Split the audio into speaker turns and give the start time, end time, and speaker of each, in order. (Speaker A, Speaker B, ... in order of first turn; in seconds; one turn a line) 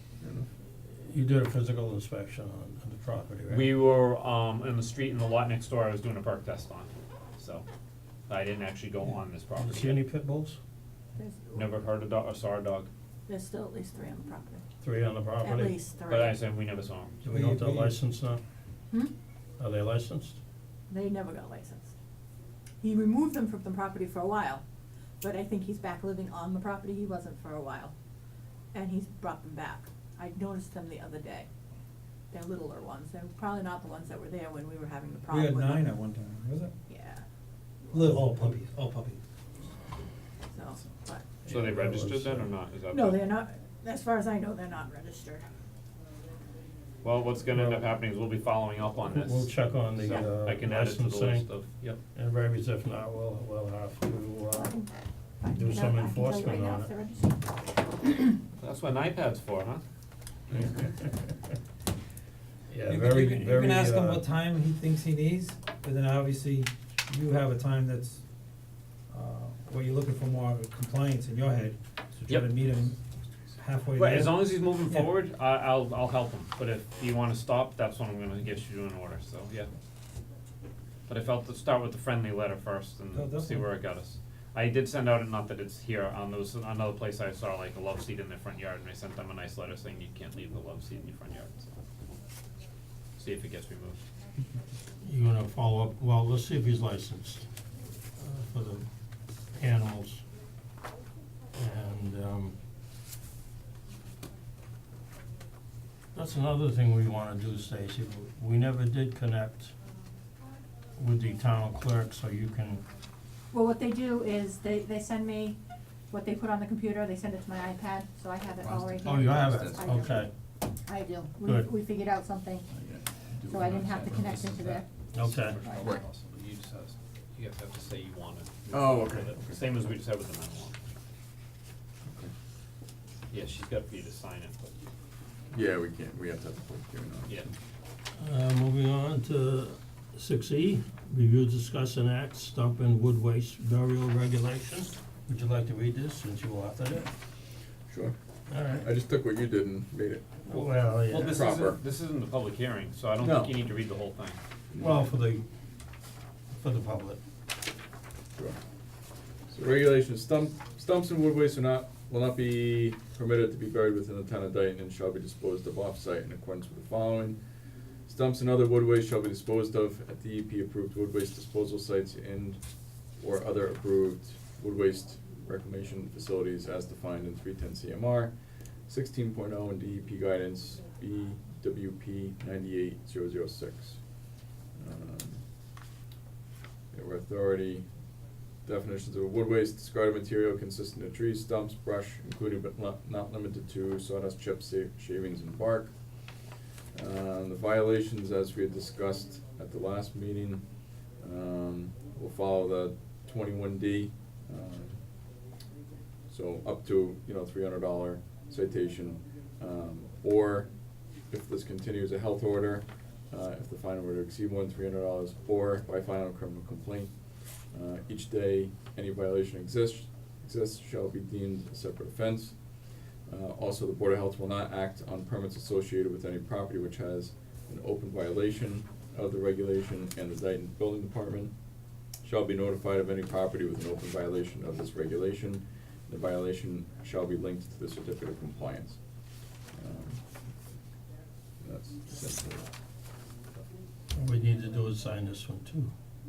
Speaker A: 0.2-0.5
Speaker B: 0.9-3.7
Speaker C: 3.5-7.7
Speaker C: 8.3-10.0
Speaker B: 9.6-10.6
Speaker D: 11.2-11.6
Speaker C: 11.5-12.9
Speaker D: 13.3-14.6
Speaker B: 14.8-15.8
Speaker D: 15.4-16.4
Speaker C: 16.1-17.2
Speaker B: 17.2-18.4
Speaker E: 17.3-18.0
Speaker B: 19.6-20.4
Speaker D: 20.9-21.9
Speaker D: 22.8-24.6
Speaker D: 25.2-27.9
Speaker D: 28.7-31.5
Speaker D: 32.3-35.9
Speaker E: 35.3-36.7
Speaker D: 36.9-37.2
Speaker E: 37.9-39.2
Speaker D: 40.5-41.4
Speaker B: 41.5-42.5
Speaker C: 41.5-43.2
Speaker D: 42.9-45.5
Speaker C: 47.0-52.0
Speaker B: 47.5-47.9
Speaker B: 49.0-54.8
Speaker D: 54.6-54.9
Speaker D: 55.4-58.4
Speaker B: 55.5-56.9
Speaker C: 58.6-59.8
Speaker B: 60.5-61.3
Speaker B: 62.7-64.2
Speaker C: 62.9-64.0
Speaker E: 63.6-68.2
Speaker E: 69.1-73.0
Speaker C: 72.3-72.5
Speaker E: 73.6-75.1
Speaker C: 74.0-79.7
Speaker C: 81.1-91.8
Speaker E: 83.1-83.7
Speaker C: 93.2-94.0
Speaker B: 95.0-97.5
Speaker B: 98.2-98.8
Speaker B: 99.5-100.2
Speaker B: 101.5-102.6
Speaker B: 106.1-109.7
Speaker B: 111.0-112.8
Speaker D: 113.5-115.6
Speaker D: 116.1-120.1
Speaker A: 118.6-120.0
Speaker B: 119.0-120.3
Speaker D: 120.9-122.7
Speaker B: 121.4-121.7
Speaker A: 122.7-124.8
Speaker D: 123.5-124.8
Speaker C: 124.1-130.8
Speaker B: 125.1-125.6
Speaker A: 125.8-126.0
Speaker A: 128.7-129.6
Speaker A: 132.1-132.3
Speaker C: 133.3-134.7
Speaker A: 135.5-137.5
Speaker C: 137.3-137.5
Speaker B: 138.2-147.1
Speaker A: 147.9-148.2
Speaker B: 148.5-148.9
Speaker A: 148.8-150.4
Speaker B: 150.4-151.5
Speaker C: 150.5-154.4
Speaker A: 151.2-151.8
Speaker A: 153.2-153.6
Speaker A: 154.7-155.0
Speaker B: 154.8-155.4
Speaker B: 156.5-157.2
Speaker A: 159.5-167.4
Speaker A: 168.1-172.6
Speaker A: 173.2-178.3
Speaker A: 178.9-184.2
Speaker A: 184.8-185.4
Speaker A: 186.9-187.9
Speaker A: 188.7-196.2
Speaker A: 196.9-200.7
Speaker A: 201.2-205.1
Speaker A: 206.3-217.2
Speaker A: 217.7-222.6
Speaker A: 223.3-231.5
Speaker A: 232.2-239.0
Speaker A: 239.7-240.2
Speaker A: 241.6-242.7
Speaker B: 244.1-245.9